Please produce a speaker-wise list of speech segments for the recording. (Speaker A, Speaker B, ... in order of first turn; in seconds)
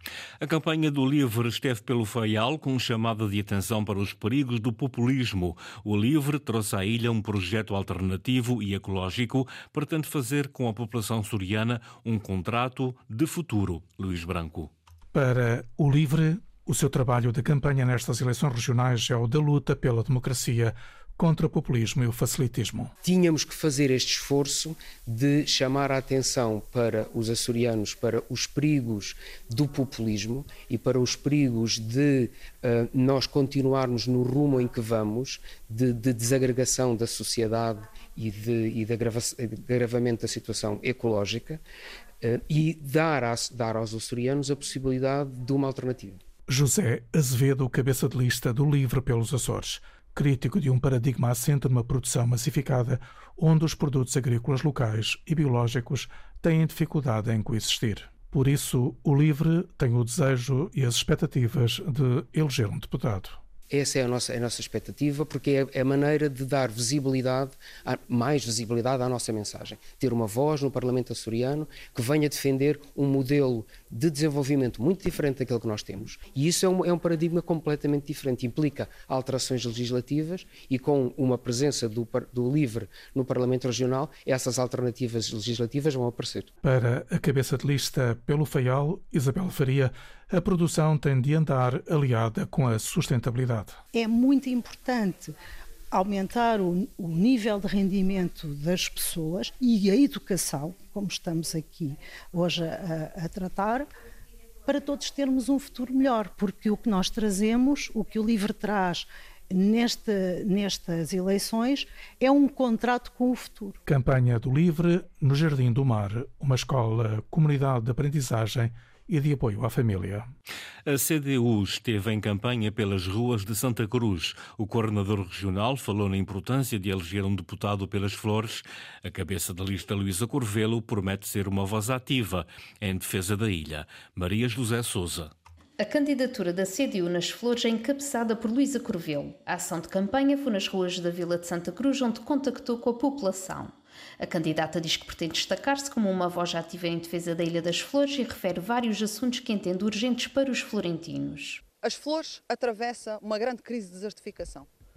Speaker A: 0.4-14.7, 120.9-135.3
Speaker B: 15.1-22.9, 46.5-63.4, 86.6-93.8, 113.9-120.3
Speaker C: 23.0-41.6, 42.2-46.2, 63.7-86.5
Speaker D: 93.9-95.3, 95.9-103.9, 104.7-113.8
Speaker E: 135.8-151.6
Speaker F: 151.8-154.7